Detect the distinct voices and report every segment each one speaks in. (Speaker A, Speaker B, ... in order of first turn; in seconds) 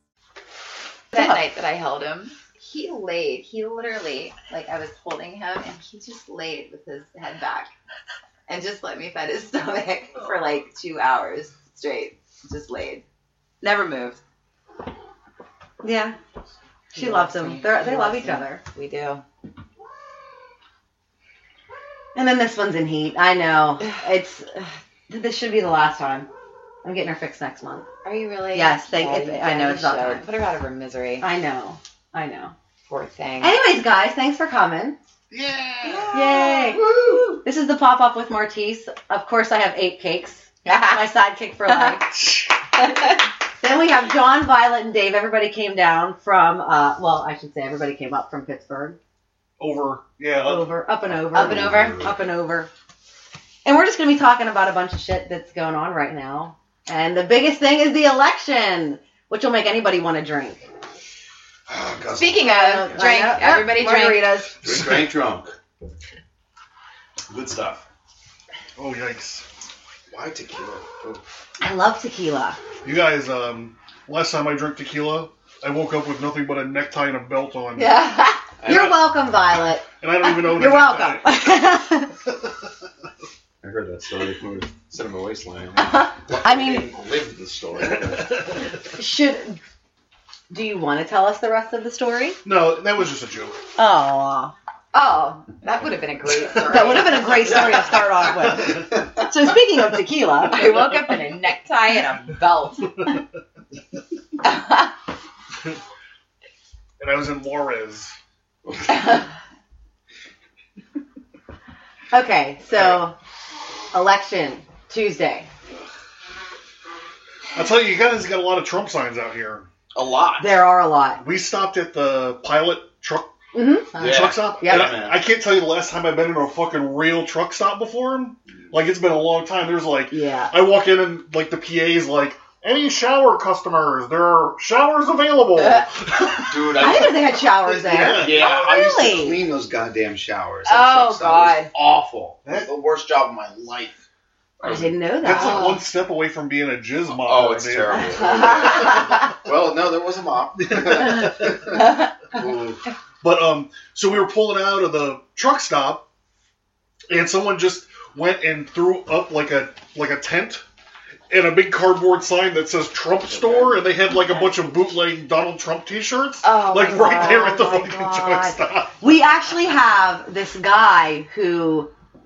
Speaker A: 1.1-7.7, 8.5-13.0, 13.6-14.2, 16.9-19.2, 28.0-31.3, 32.9-33.6, 35.9-36.4, 40.6-41.1, 41.7-42.0, 51.3-52.1, 62.1-64.4, 77.8-78.3, 95.5-97.9, 100.5-102.9, 104.4-104.9, 108.9-109.2, 135.6-135.8, 140.7-141.7, 145.4-145.8, 148.2-149.0, 166.4-167.8
Speaker B: 1.1-1.4, 15.8-16.2, 16.9-18.6, 22.1-26.3, 26.8-27.9, 28.5-30.3, 31.2-32.5, 33.4-35.0, 36.1-36.9, 37.4-42.1, 43.6-49.0, 50.5-52.7, 53.6-60.7, 62.4-64.5, 71.6-72.6, 77.9-82.1, 86.4-86.9, 89.0-89.6, 90.5-92.4, 93.8-95.5, 96.7-100.7, 112.1-113.2, 113.9-115.5, 120.4-121.2, 123.5-124.0, 124.6-124.9, 130.1-130.5, 136.8-139.4, 144.6-145.8, 166.9-171.9
Speaker C: 35.3-36.4, 42.1-42.5, 49.6-50.8, 51.3-52.1, 64.6-65.1, 68.8-69.5, 72.8-78.0, 78.7-78.9, 80.0-81.3, 88.3-88.5, 92.4-93.6, 96.7-97.0, 98.5-98.8, 107.0-108.1, 112.7-113.0, 117.5-119.7, 121.2-123.3, 124.0-138.9, 142.4-142.7, 145.2-149.3, 150.6-151.7, 153.2-156.1, 157.1-160.6, 161.3-168.9
Speaker D: 36.9-37.3, 61.7-63.0, 64.6-65.6, 67.3-67.8, 70.1-71.2, 78.6-79.1, 83.6-88.4, 97.5-99.1, 119.9-120.6, 124.0-125.3, 136.5-137.4, 138.0-144.0, 144.6-144.9, 147.1-152.8, 163.3-163.7